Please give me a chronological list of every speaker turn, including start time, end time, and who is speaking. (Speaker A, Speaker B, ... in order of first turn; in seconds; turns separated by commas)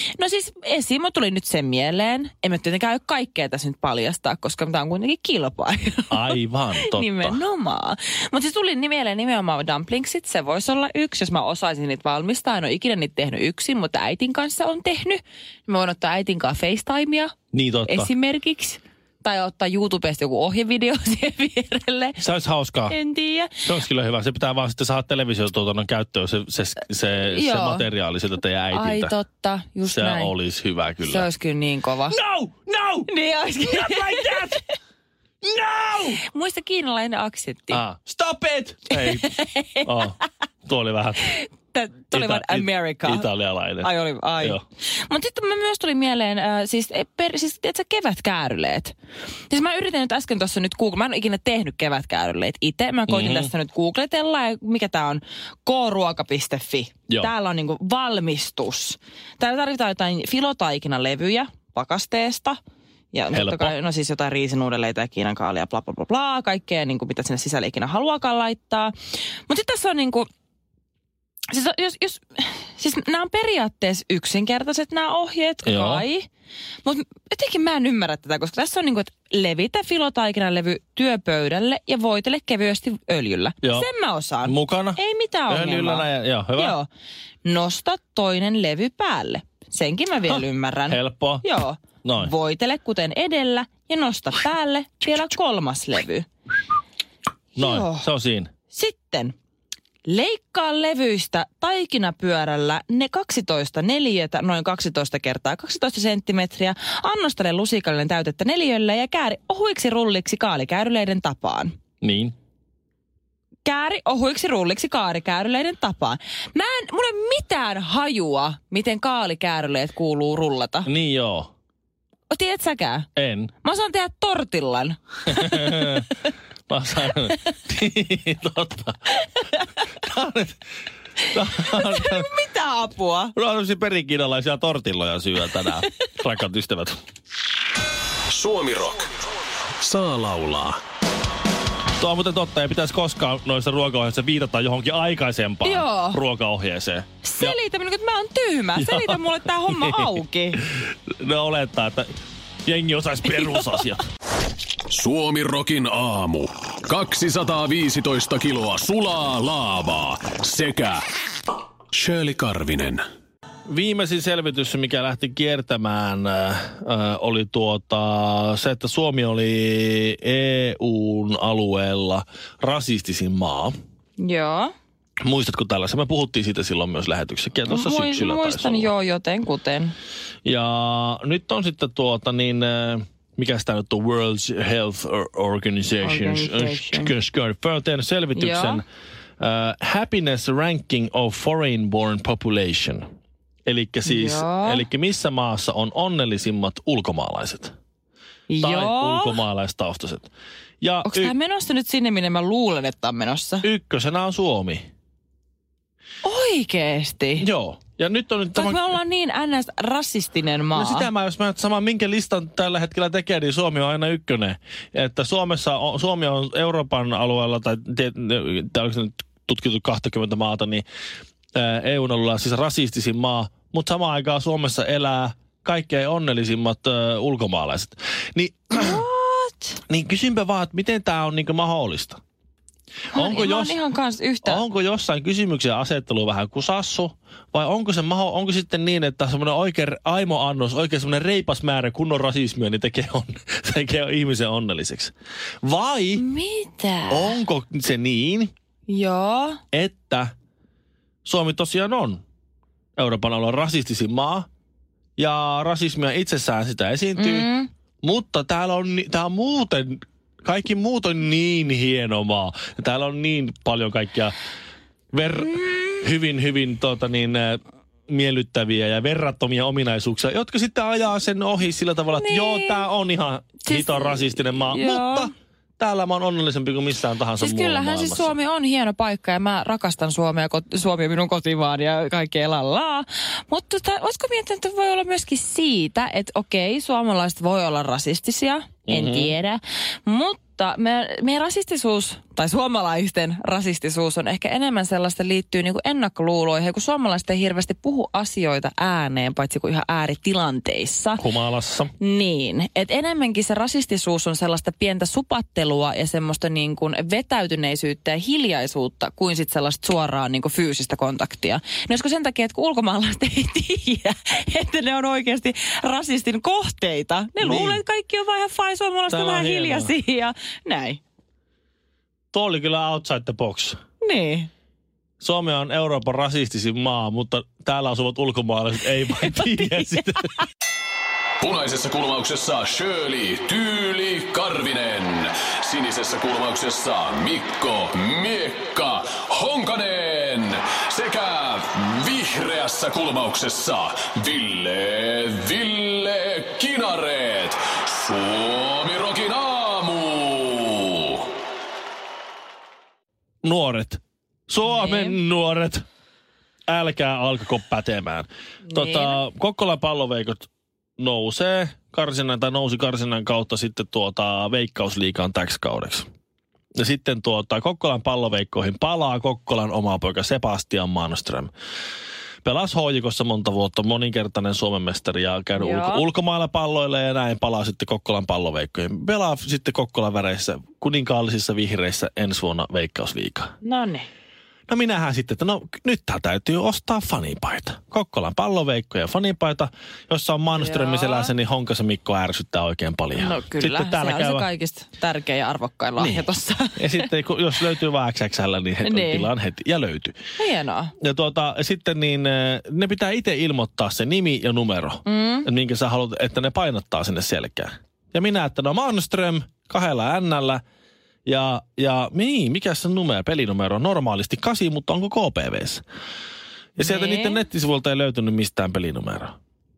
Speaker A: 0.2-17.3, Speaker B: 6.1-7.4, Speaker B: 17.5-18.1, Speaker A: 17.9-22.2, Speaker B: 22.2-23.0, Speaker A: 22.9-23.7, Speaker B: 23.6-29.1, Speaker A: 27.2-27.9, Speaker A: 28.7-30.4, Speaker B: 29.9-31.3, Speaker A: 31.0-32.2, Speaker B: 32.1-34.6, Speaker A: 33.1-34.7, Speaker B: 35.4-36.2, Speaker A: 36.2-37.8, Speaker B: 37.7-41.4, Speaker A: 38.9-39.9, Speaker A: 41.3-43.3, Speaker B: 42.1-44.6, Speaker A: 43.8-49.0, Speaker A: 49.5-62.6, Speaker B: 53.1-53.5, Speaker A: 63.1-68.9, Speaker B: 63.3-63.7, Speaker A: 69.5-70.3, Speaker A: 71.5-76.3, Speaker B: 75.6-76.0, Speaker A: 76.8-86.9, Speaker B: 84.5-86.8, Speaker A: 87.4-96.3, Speaker B: 90.3-91.5, Speaker B: 92.0-92.3, Speaker A: 97.6-98.1, Speaker B: 97.6-98.5, Speaker A: 98.7-99.3, Speaker A: 100.0-111.8, Speaker B: 112.0-112.3, Speaker A: 113.7-120.9, Speaker B: 120.9-121.5, Speaker A: 122.3-123.1, Speaker B: 123.2-123.5, Speaker A: 123.6-126.0, Speaker B: 125.3-129.2, Speaker B: 130.0-130.6, Speaker B: 131.3-132.3, Speaker A: 131.5-133.3, Speaker B: 133.3-137.0, Speaker C: 138.3-139.1, Speaker C: 139.8-140.8, Speaker B: 142.0-147.6, Speaker A: 145.6-146.2, Speaker A: 147.2-150.6, Speaker B: 148.8-152.1, Speaker B: 152.7-154.0, Speaker C: 154.9-161.0, Speaker C: 161.9-163.0, Speaker B: 163.7-173.7, Speaker A: 174.2-174.7, Speaker B: 175.2-178.9, Speaker A: 177.7-179.9, Speaker B: 180.4-188.8, Speaker A: 186.0-187.1, Speaker A: 188.3-188.8, Speaker B: 189.4-193.0, Speaker B: 193.7-197.7, Speaker A: 194.1-194.9, Speaker A: 198.5-199.4, Speaker B: 198.6-200.3, Speaker B: 200.8-201.3, Speaker A: 201.0-203.7, Speaker B: 203.6-204.8, Speaker A: 206.2-207.5, Speaker B: 207.4-209.0, Speaker A: 208.6-211.1, Speaker B: 210.7-220.8, Speaker B: 221.6-229.0, Speaker A: 228.7-229.8, Speaker B: 229.9-232.2, Speaker B: 233.1-233.8, Speaker A: 233.1-234.6, Speaker B: 234.4-246.3, Speaker A: 246.2-247.4, Speaker B: 247.1-248.5, Speaker A: 248.9-249.6, Speaker B: 249.7-250.3, Speaker B: 251.2-252.2, Speaker B: 253.0-254.5, Speaker B: 255.2-257.5, Speaker A: 257.2-257.7, Speaker B: 258.0-264.3, Speaker B: 265.1-278.4, Speaker A: 272.1-272.8, Speaker A: 273.6-275.3, Speaker A: 277.4-301.2, Speaker B: 288.9-289.3, Speaker B: 301.2-301.9, Speaker A: 302.0-321.0, Speaker B: 317.4-317.8, Speaker B: 319.1-319.9, Speaker B: 322.3-323.8, Speaker A: 324.0-324.5, Speaker B: 325.2-330.3, Speaker A: 329.1-330.4, Speaker C: 331.4-351.3, Speaker B: 353.4-355.8, Speaker A: 354.7-355.2, Speaker B: 356.7-360.5, Speaker A: 358.7-359.2, Speaker B: 361.0-366.1, Speaker B: 366.8-371.5, Speaker B: 372.4-383.5, Speaker A: 375.6-376.1, Speaker A: 383.6-384.1, Speaker B: 384.7-394.5, Speaker A: 390.6-391.3, Speaker A: 393.2-397.1, Speaker B: 396.0-400.2, Speaker A: 398.8-399.3, Speaker A: 400.4-400.9, Speaker B: 401.0-410.6, Speaker A: 405.1-405.5, Speaker B: 411.3-415.8, Speaker B: 416.8-419.3, Speaker A: 416.8-417.4